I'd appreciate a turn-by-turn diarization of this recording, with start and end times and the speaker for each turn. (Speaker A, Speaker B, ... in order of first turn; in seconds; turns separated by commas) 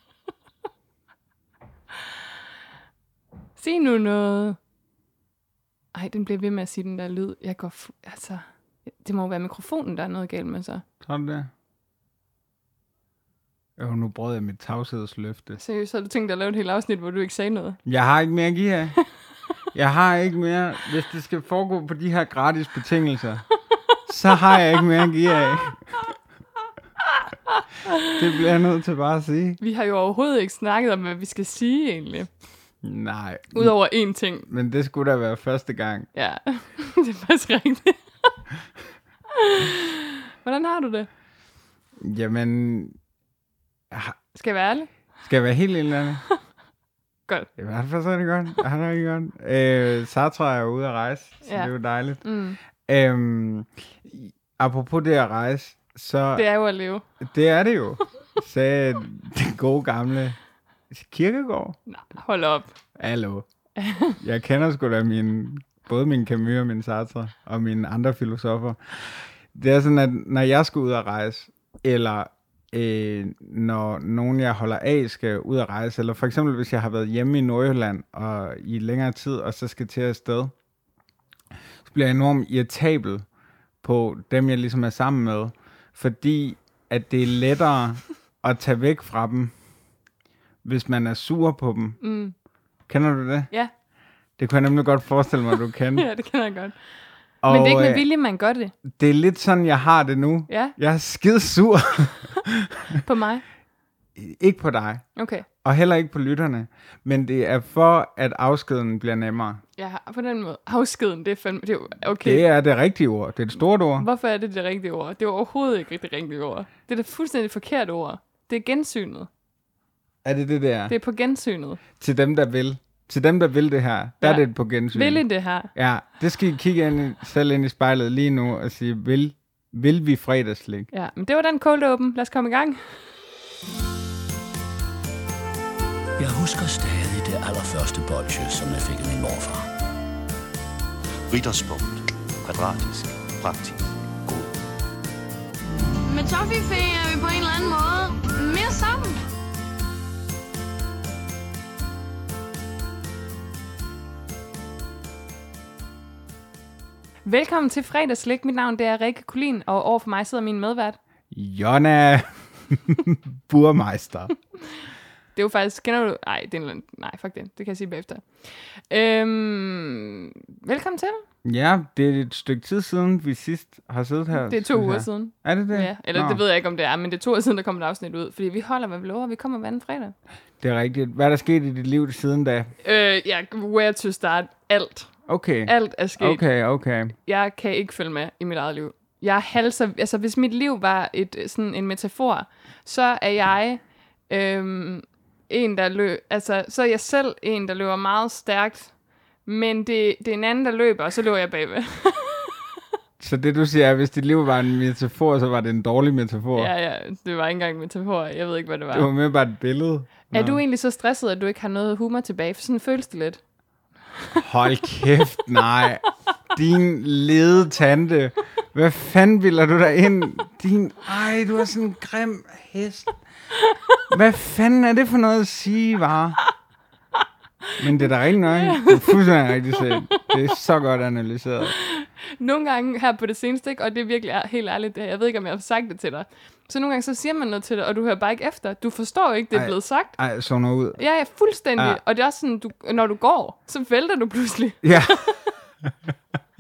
Speaker A: 3.6-4.6, Speaker A: 5.9-10.8, Speaker B: 11.0-11.5, Speaker B: 13.8-15.6, Speaker A: 15.6-17.8, Speaker B: 17.9-19.0, Speaker B: 19.7-23.4, Speaker B: 24.1-25.8, Speaker A: 27.6-28.1, Speaker B: 28.0-29.6, Speaker A: 29.6-32.3, Speaker B: 32.8-33.7, Speaker A: 33.5-34.5, Speaker B: 34.5-36.1, Speaker A: 36.1-38.0, Speaker A: 39.4-41.1, Speaker B: 42.0-43.0, Speaker B: 43.9-44.2, Speaker A: 44.4-44.9, Speaker B: 45.2-46.2, Speaker B: 47.6-52.2, Speaker A: 51.4-51.7, Speaker A: 52.2-52.6, Speaker B: 52.9-56.5, Speaker A: 56.4-57.0, Speaker B: 57.2-60.4, Speaker B: 60.9-61.8, Speaker A: 61.9-62.7, Speaker B: 63.0-63.5, Speaker A: 63.8-64.2, Speaker B: 64.2-80.5, Speaker B: 81.8-83.2, Speaker B: 83.8-89.5, Speaker B: 90.6-92.0, Speaker A: 92.0-92.3, Speaker B: 92.9-93.5, Speaker B: 94.4-96.1, Speaker A: 95.9-96.8, Speaker B: 97.4-98.0, Speaker A: 97.5-98.7, Speaker B: 98.8-103.0, Speaker A: 100.5-100.8, Speaker A: 103.0-103.4, Speaker B: 104.2-105.0, Speaker A: 105.2-105.5, Speaker B: 105.6-109.6, Speaker A: 109.8-112.5, Speaker B: 112.2-114.1, Speaker A: 114.0-119.3, Speaker B: 120.2-121.0, Speaker A: 120.9-121.8, Speaker B: 122.0-125.2, Speaker A: 124.2-125.7, Speaker B: 125.8-130.9, Speaker A: 130.9-133.0, Speaker C: 136.2-139.7, Speaker D: 141.3-144.5, Speaker E: 146.0-149.3, Speaker A: 157.2-161.0, Speaker B: 161.3-164.3, Speaker A: 165.3-171.2, Speaker B: 171.4-176.4, Speaker A: 174.4-180.1, Speaker B: 180.6-182.7, Speaker A: 182.8-185.1, Speaker B: 185.3-187.1, Speaker A: 185.7-186.4, Speaker A: 187.2-198.9, Speaker A: 199.4-202.6, Speaker B: 203.2-206.7, Speaker A: 206.6-209.1, Speaker B: 208.9-210.6, Speaker A: 210.3-213.4, Speaker B: 214.4-223.2, Speaker B: 224.1-226.4, Speaker B: 227.8-231.7, Speaker A: 228.4-230.3, Speaker A: 231.7-240.2, Speaker B: 239.5-241.0, Speaker A: 241.0-245.5, Speaker B: 244.8-245.3